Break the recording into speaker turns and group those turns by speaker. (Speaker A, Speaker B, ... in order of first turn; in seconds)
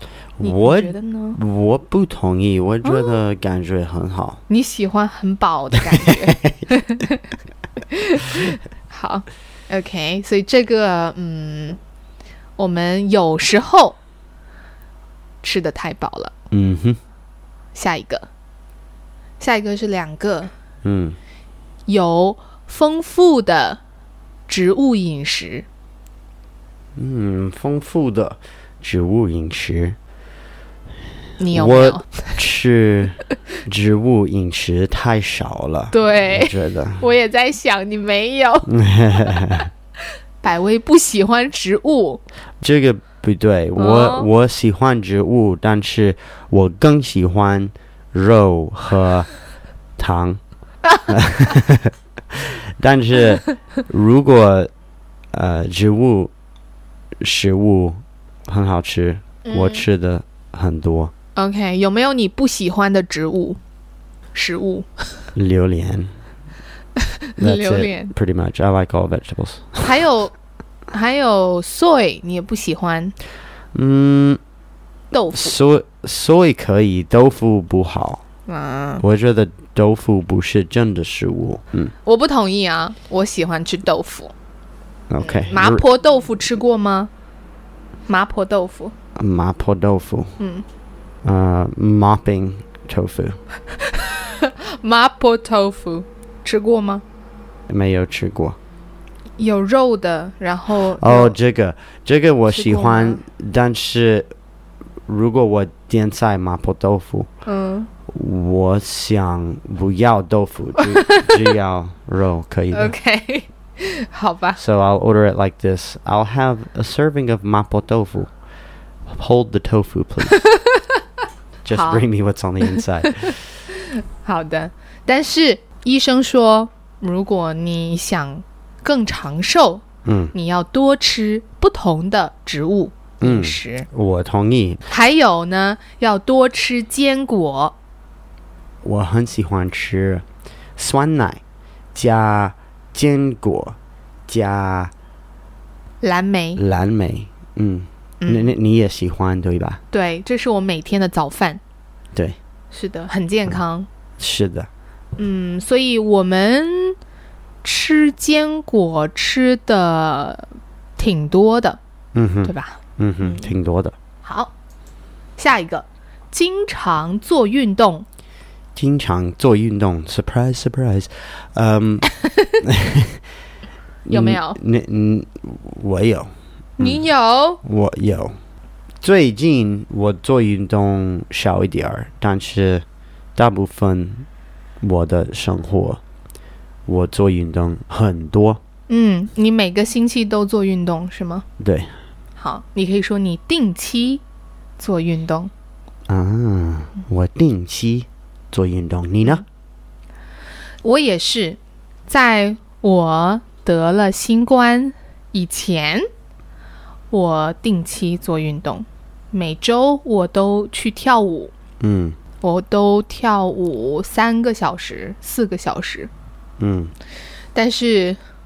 Speaker A: 0.4-4.4, 5.8-6.6, 16.5-17.0, 20.8-21.2, 26.9-30.0, 31.4-37.0, 38.7-39.7, 42.6-49.3, 50.0-50.4, 51.1-54.7, 55.3-56.3, 57.2-61.1, 65.3-66.1, 67.4-69.9, 73.7-74.4, 75.3-78.2, 79.0-81.9, 85.1-85.8, 89.2-90.3, 91.2-93.4, 97.7-98.6, 101.0-104.3, 105.1-107.3, 108.1-112.9, 114.6-118.3, 119.0-120.4, 121.6-123.5, 130.0-130.3, 133.2-134.8, 138.8-140.2, 140.8-141.4, 141.9-144.9, 146.6-149.8, 154.2-154.7, 162.1-163.9, 168.7-172.1, 172.6-173.2, 174.1-177.0, 177.6-178.3, 179.0-182.8, 183.3-184.3, 184.8-186.0, 186.8-188.6, 191.6-191.9, 196.1-199.4, 211.8-212.2, 216.6-216.9
Speaker B: 0.4-1.4, 2.8-3.2, 4.5-7.3, 7.9-11.8, 12.6-14.0, 15.4-16.3, 17.7-18.3, 19.4-20.5, 21.9-23.8, 24.5-25.6, 31.4-32.4, 35.9-39.4, 40.4-42.2, 43.8-44.3, 59.4-59.9, 61.4-63.6, 64.3-65.2, 67.0-68.1, 69.8-70.3, 70.9-73.1, 75.1-75.5, 78.5-79.0, 82.0-84.3, 85.2-87.1, 88.1-88.9, 90.4-90.6, 93.7-97.0, 99.4-101.4, 102.5-103.2, 107.5-107.9, 110.8-111.5, 112.7-114.6, 120.3-120.8, 121.7-122.0, 122.6-133.9, 134.9-137.7, 146.0-146.6, 148.2-148.5, 149.9-151.6, 152.7-153.9, 155.2-157.0, 157.6-161.8, 162.4-163.5, 164.2-164.5, 165.4-168.1, 172.2-172.6, 174.1-174.6, 176.8-177.6, 188.9-191.4, 192.4-194.2, 194.8-195.5, 200.8-206.1, 207.1-211.5, 212.4-216.1, 217.5-218.2